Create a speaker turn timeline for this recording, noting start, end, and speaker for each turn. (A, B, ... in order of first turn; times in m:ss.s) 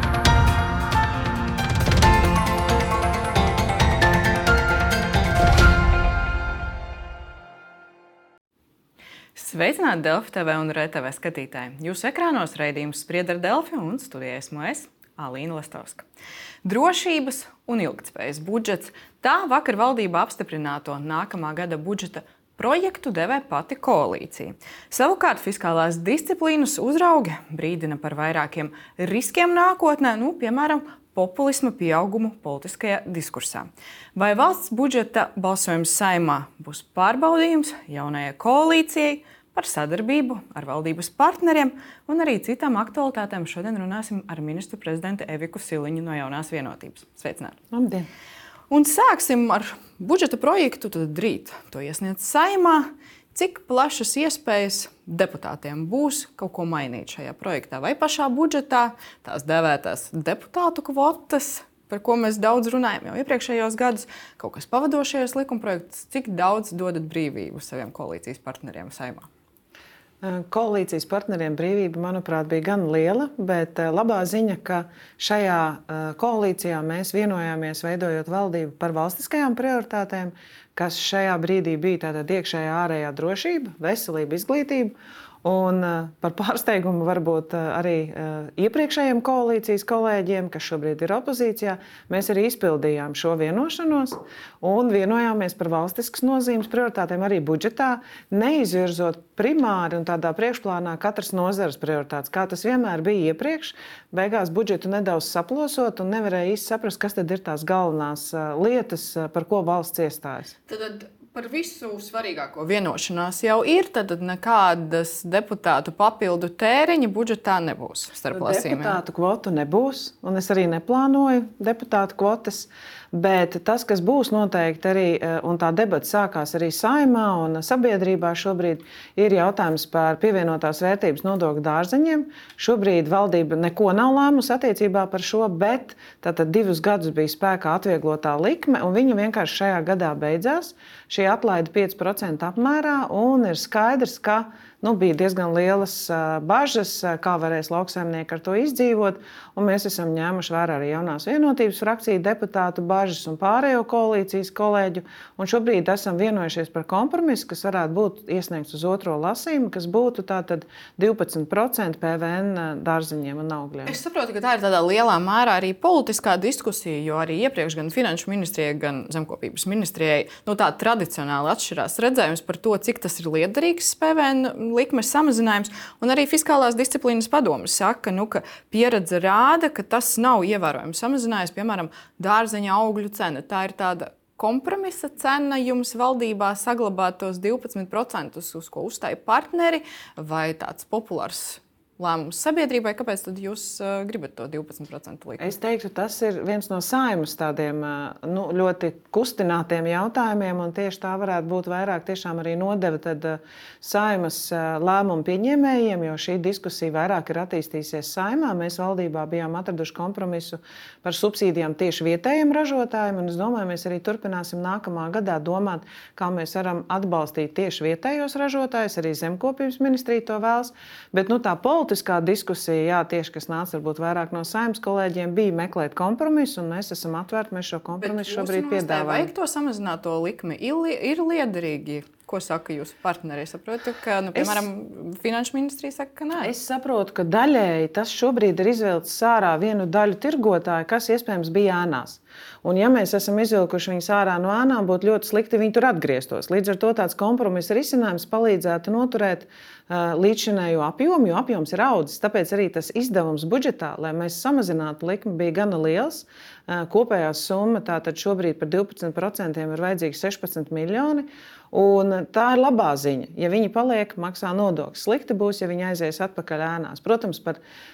0:09.4-0:16.0 A
0:16.6-0:47.6 A
0:47.7-0:48.1 B
0:48.7-1:09.3 A
1:10.2-1:50.5 B
1:50.7-1:59.0 A
1:58.3-2:44.0 B
2:43.8-3:15.5 A
3:15.4-3:49.3 B
3:48.0-3:56.5 A
3:54.3-3:54.7 B
3:56.4-4:27.6 B